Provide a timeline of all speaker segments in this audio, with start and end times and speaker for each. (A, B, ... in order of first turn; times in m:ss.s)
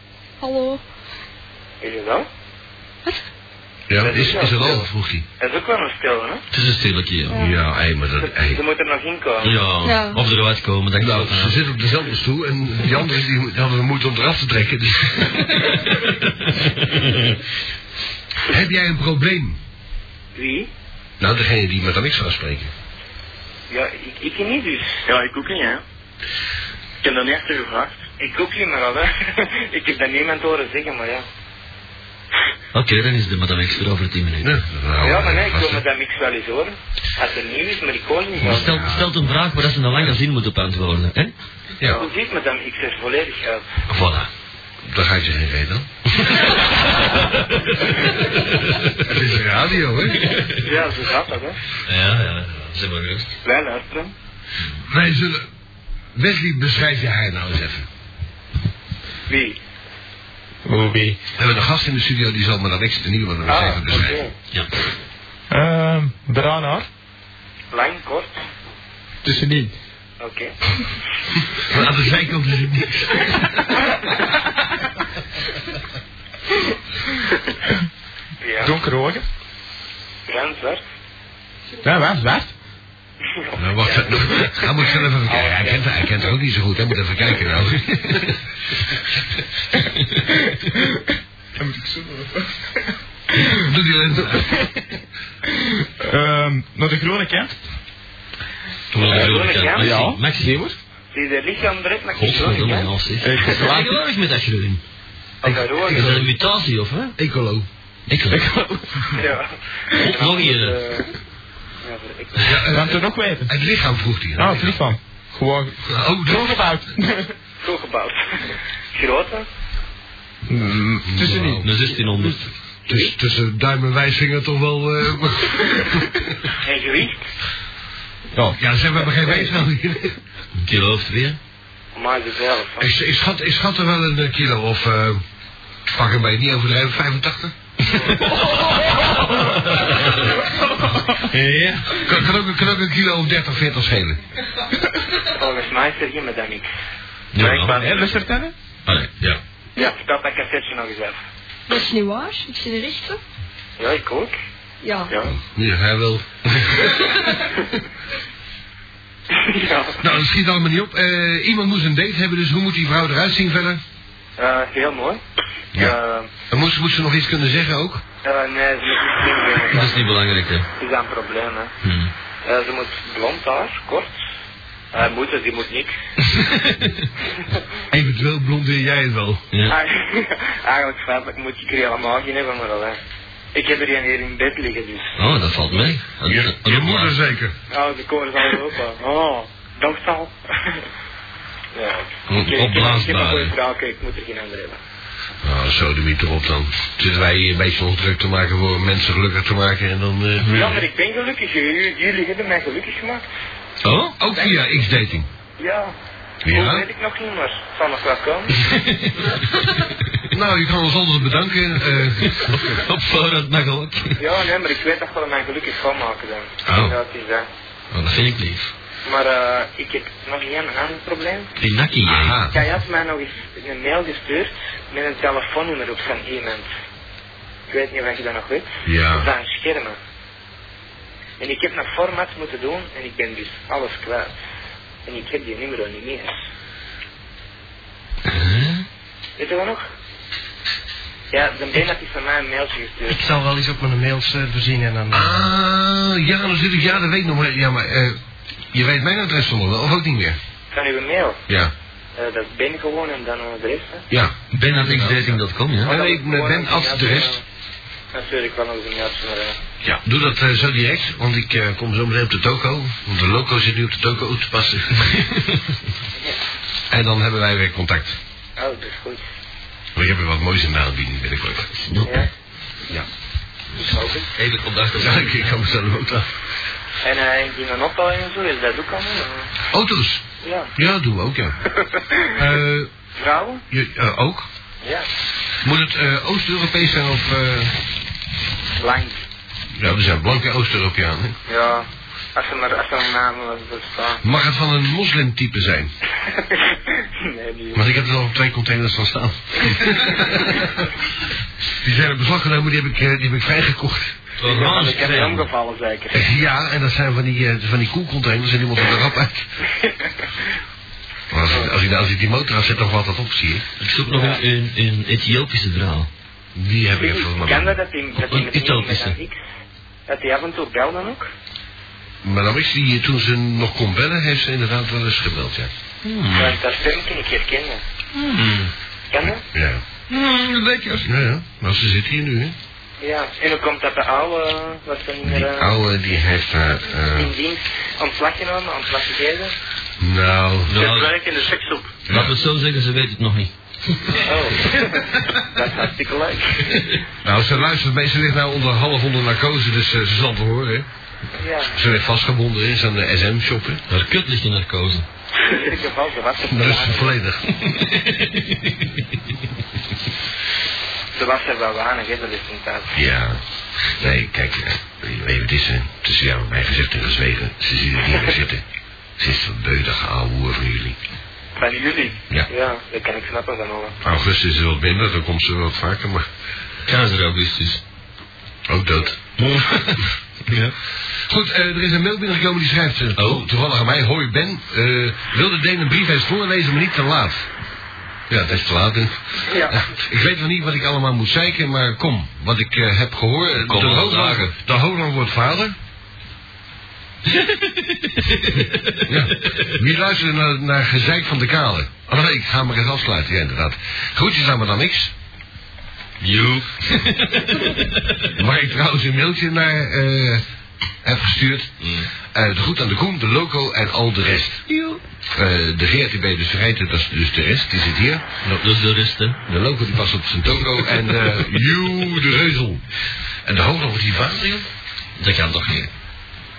0:00.4-0:00.8 A
0:01.8-0:02.3 B
0:03.9-0:05.2 C
0:03.9-0:04.9 B
0:05.4-0:06.4 B
0:06.5-0:07.4 D
0:07.3-0:07.6 A
0:07.3-0:08.6 C
0:08.2-0:09.6 B
0:09.4-0:11.6 D
0:09.8-0:10.2 A
0:11.0-0:15.7 C
0:15.7-0:17.1 D
0:18.4-0:19.6 C
0:20.4-0:20.7 B
0:21.2-0:22.7 C
0:23.7-0:25.0 B
0:25.0-0:25.8 E
0:27.0-0:28.0 E
0:28.2-0:31.2 B
0:32.7-0:34.6 D
0:34.4-0:35.8 C
0:35.0-0:38.8 B
0:38.4-0:41.3 D
0:38.6-0:39.1 C
0:41.8-0:42.0 C
0:41.8-0:43.6 B
0:43.9-0:44.3 D
0:44.8-0:45.9 C
0:46.2-0:49.1 D
0:49.0-0:50.4 C
0:50.2-0:50.6 D
0:50.5-0:51.6 B
0:51.8-0:53.4 D
0:53.4-0:54.1 B
0:54.8-0:55.4 C
0:56.1-0:57.9 C
0:59.3-0:59.6 B
1:00.6-1:01.2 F
1:01.4-1:04.2 C
1:03.4-1:04.3 B
1:05.5-1:06.8 F
1:07.7-1:08.4 B
1:09.2-1:09.7 F
1:10.2-1:10.5 B
1:11.6-1:13.4 C
1:18.4-1:18.8 B
1:18.6-1:19.2 F
1:20.3-1:20.8 B
1:21.8-1:22.5 F
1:23.4-1:24.5 B
1:23.6-1:28.3 C
1:25.2-1:26.0 B
1:31.6-1:32.5 F
1:33.5-1:34.7 C
1:36.0-1:37.6 F
1:38.9-1:40.6 D
1:39.1-1:39.9 B
1:39.7-1:40.7 F
1:41.1-1:42.9 B
1:42.1-1:44.8 D
1:43.2-1:44.0 F
1:45.4-1:46.2 B
1:45.4-1:46.3 C
1:45.8-1:47.1 D
1:47.2-1:47.6 C
1:48.1-1:48.4 D
1:48.3-1:49.2 F
1:49.2-1:49.5 B
1:49.9-1:50.8 D
1:50.0-1:51.1 B
1:51.8-1:52.6 B
1:52.4-1:54.8 C
1:52.7-1:53.5 F
1:54.4-1:57.3 F
1:55.8-1:56.7 C
1:57.6-1:59.5 B
2:00.5-2:01.7 F
2:01.0-2:01.7 C
2:01.6-2:02.5 D
2:02.9-2:06.2 C
2:06.6-2:07.2 B
2:08.5-2:10.2 C
2:10.6-2:11.4 D
2:12.0-2:12.9 B
2:12.8-2:15.2 C
2:15.9-2:17.5 C
2:17.9-2:20.3 D
2:20.5-2:21.2 F
2:21.2-2:22.0 D
2:22.0-2:24.2 C
2:25.4-2:26.7 B
2:27.3-2:27.8 D
2:27.4-2:28.5 F
2:27.4-2:28.0 B
2:28.8-2:29.4 D
2:29.8-2:31.2 B
2:31.7-2:33.2 A
2:33.8-2:34.3 B
2:34.8-2:35.1 A
2:35.2-2:37.0 C
2:39.3-2:40.0 B
2:40.0-2:43.8 C
2:44.4-2:45.2 B
2:45.8-2:46.3 B
2:46.5-2:48.0 C
2:48.2-2:50.0 B
2:49.7-2:50.7 D
2:50.8-2:51.7 B
2:51.8-2:52.1 D
2:52.4-2:54.1 B
2:54.9-2:55.9 B
2:56.3-2:57.1 D
2:57.9-2:59.4 C
2:59.6-3:03.0 B
3:03.5-3:05.2 B
3:05.2-3:07.2 D
3:06.2-3:07.6 C
3:07.7-3:10.8 B
3:11.7-3:14.8 B
3:12.3-3:13.5 D
3:15.4-3:20.8 C
3:20.5-3:23.2 B
3:23.8-3:24.2 D
3:24.2-3:25.3 C
3:24.3-3:24.9 B
3:25.6-3:25.9 B
3:26.4-3:26.8 C
3:26.5-3:28.6 B
3:28.6-3:29.9 D
3:30.3-3:32.8 C
3:32.2-3:34.2 D
3:34.2-3:37.5 B
3:36.6-3:36.9 D
3:37.9-3:38.7 D
3:39.0-3:41.5 B
3:41.6-3:42.4 D
3:42.0-3:42.6 C
3:42.5-3:46.7 B
3:47.7-3:50.0 B
3:48.8-3:49.3 C
3:51.4-3:54.4 B
3:55.0-3:56.4 B
3:58.2-3:58.8 D
3:59.4-3:59.8 B
4:01.3-4:03.2 B
4:03.1-4:05.5 G
4:05.1-4:08.2 C
4:08.7-4:10.4 C
4:10.7-4:11.4 B
4:11.5-4:11.7 C
4:12.2-4:14.0 B
4:14.1-4:17.4 C
4:14.5-4:16.0 D
4:15.8-4:17.4 B
4:18.1-4:19.6 B
4:19.8-4:25.1 C
4:26.9-4:28.2 C
4:28.6-4:29.2 B
4:30.0-4:31.7 C
4:31.7-4:32.3 D
4:33.8-4:34.3 B
4:34.3-4:35.6 D
4:35.0-4:36.3 C
4:37.0-4:39.5 B
4:39.7-4:41.6 C
4:40.4-4:40.7 B
4:41.8-4:42.2 B
4:42.3-4:42.9 C
4:43.2-4:43.6 B
4:43.7-4:44.5 C
4:45.6-4:47.8 C
4:48.8-4:49.2 B
4:49.8-4:51.4 C
4:51.5-4:54.2 B
4:54.2-4:55.9 C
4:56.4-4:57.9 B
4:57.7-5:00.8 C
5:01.8-5:04.1 C
5:04.4-5:05.5 D
5:04.4-5:06.3 B
5:06.1-5:09.5 C
5:11.3-5:13.6 C
5:13.8-5:16.1 D
5:14.1-5:14.4 B
5:16.5-5:17.8 C
5:16.9-5:19.4 B
5:18.2-5:19.2 D
5:20.1-5:21.2 B
5:22.2-5:25.7 C
5:26.0-5:26.6 D
5:26.3-5:27.8 B
5:28.1-5:28.7 D
5:29.1-5:29.4 B
5:29.5-5:29.8 C
5:30.1-5:31.1 D
5:31.0-5:32.6 C
5:33.0-5:35.7 B
5:35.2-5:37.3 C
5:37.1-5:39.6 B
5:40.0-5:40.7 C
5:40.7-5:41.1 D
5:40.7-5:42.0 E
5:42.1-5:42.3 C
5:42.1-5:43.5 D
5:44.2-5:46.6 B
5:47.2-5:50.9 C
5:51.4-5:51.8 B
5:51.7-5:53.8 C
5:53.9-5:55.0 D
5:55.4-5:57.2 B
5:56.4-5:57.4 C
5:57.5-5:59.0 D
6:01.2-6:02.9 B
6:02.9-6:08.6 C
6:09.2-6:11.0 C
6:11.6-6:14.0 B
6:14.0-6:16.3 C
6:16.8-6:17.8 D
6:18.7-6:19.3 C
6:19.4-6:20.7 D
6:21.2-6:27.5 C
6:23.2-6:23.4 D
6:28.3-6:35.7 C
6:29.5-6:29.8 B
6:33.6-6:34.5 D
6:37.3-6:39.7 D
6:39.1-6:45.1 C
6:46.2-6:48.3 D
6:48.4-6:50.4 C
6:51.0-6:54.6 C
6:51.8-6:52.1 D
6:54.7-6:55.0 D
6:55.3-6:58.6 C
6:58.5-6:59.4 D
6:59.4-7:02.8 C
7:03.4-7:04.7 C
7:05.2-7:05.9 D